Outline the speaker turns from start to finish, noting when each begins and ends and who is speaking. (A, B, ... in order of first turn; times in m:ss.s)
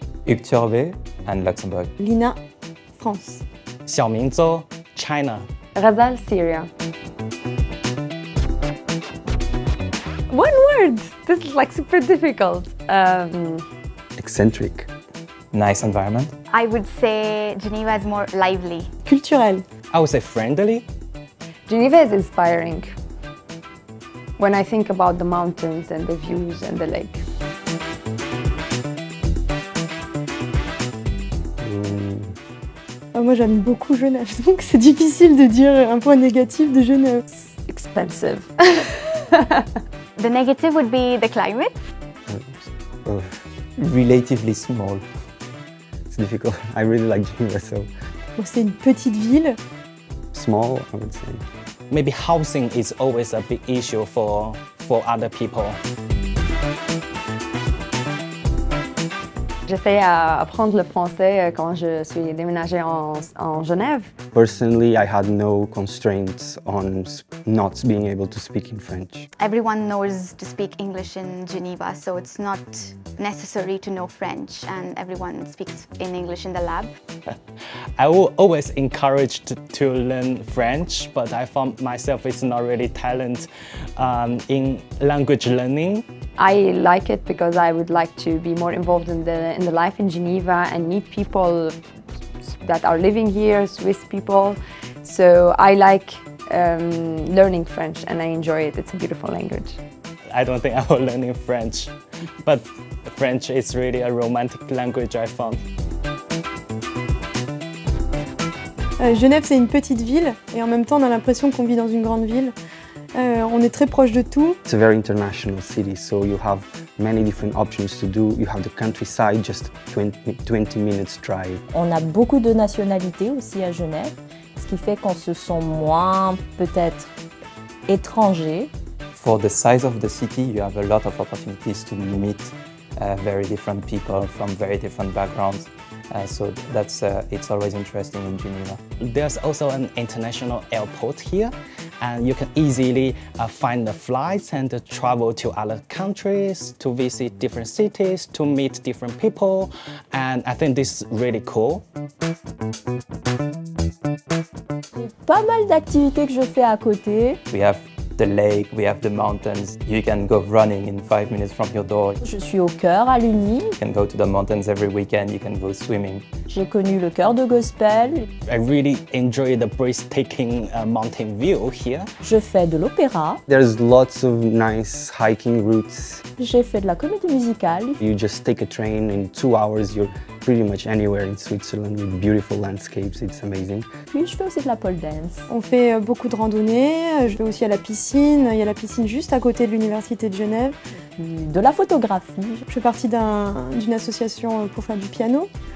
0:00.2-0:01.9 A
0:02.0-0:02.4 B
0:03.0-0:03.4 B
0:03.9-0:05.4 C
0:05.8-0:06.7 D
0:10.3-0:13.6 D
0:14.2-0:14.9 E
0:15.5-0:16.3 A
0:16.5-0:18.9 F
0:19.0-0:19.6 B
0:19.9-0:20.8 C
0:21.7-0:22.9 D
0:24.4-0:27.2 D
0:31.6-0:32.3 E
0:33.1-0:37.2 B
0:37.3-0:39.7 D
0:40.2-0:41.8 F
0:42.3-0:43.4 E
0:43.8-0:45.0 A
0:46.1-0:47.9 E
0:48.4-0:49.6 B
0:50.3-0:51.4 E
0:51.9-0:55.8 C
0:59.6-1:04.1 D
1:04.3-1:09.3 E
1:09.4-1:16.9 F
1:18.0-1:26.0 C
1:26.4-1:31.8 D
1:32.4-1:39.8 D
1:40.3-1:41.9 C
1:42.4-1:45.6 C
1:49.0-1:52.5 B
1:53.1-1:54.6 B
1:54.7-2:01.6 E
2:01.7-2:07.1 G
2:07.9-2:08.7 G
2:09.1-2:18.8 A
2:19.0-2:31.8 C
2:35.0-2:37.4 G
2:37.5-2:42.2 A
2:42.2-2:43.8 G
2:43.8-2:46.3 A
2:46.5-2:48.2 G
2:48.5-2:52.1 C
2:52.2-2:53.4 G
2:53.5-2:56.2 E
2:56.4-2:58.0 G
2:58.0-3:03.9 E
3:04.1-3:05.5 G
3:05.5-3:10.8 B
3:11.2-3:12.6 G
3:12.7-3:15.5 B